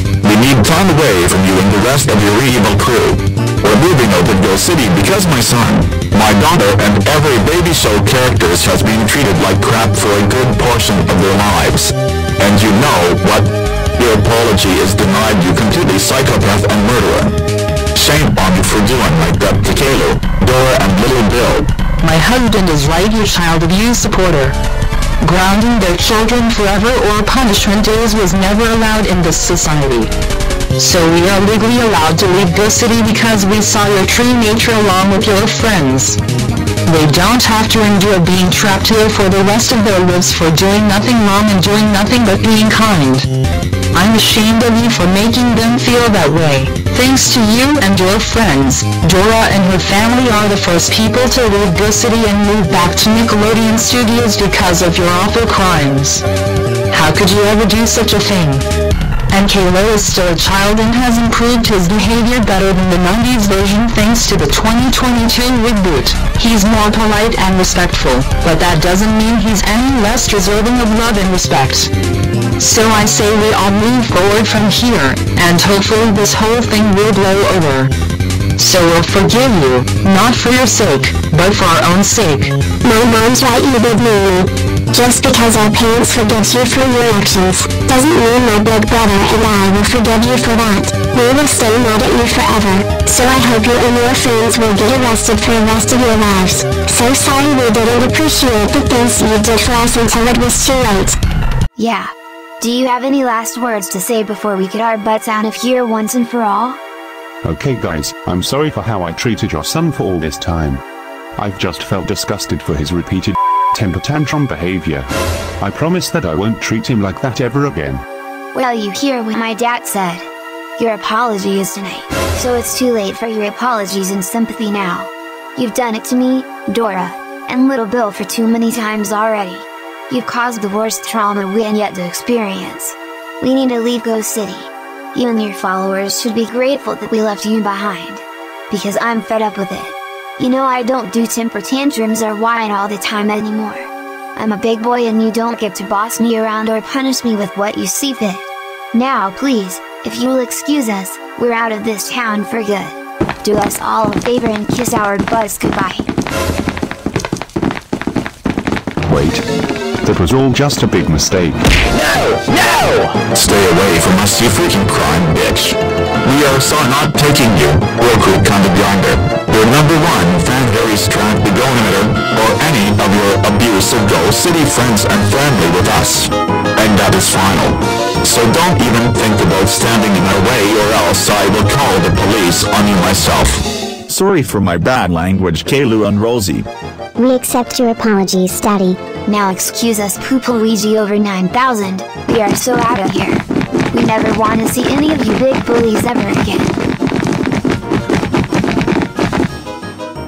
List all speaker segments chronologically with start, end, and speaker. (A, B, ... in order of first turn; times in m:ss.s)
0:00.2-0:17.4 A
0:17.9-0:21.7 A
0:22.0-0:24.6 B
0:25.2-0:30.1 B
0:30.8-0:36.2 B
0:36.9-0:43.3 B
0:43.9-0:56.2 B
0:56.9-0:58.6 B
0:59.3-1:11.9 B
1:12.6-1:17.9 B
1:18.6-1:22.6 B
1:22.8-1:41.2 C
1:41.8-1:42.1 D
1:42.6-1:46.8 D
1:47.4-1:50.8 E
1:51.4-1:58.0 E
1:58.5-2:00.2 D
2:00.8-2:36.1 D
2:39.1-2:39.4 E
2:40.0-2:41.6 E
2:42.0-3:06.7 A
3:07.2-3:09.0 C
3:09.3-3:16.8 D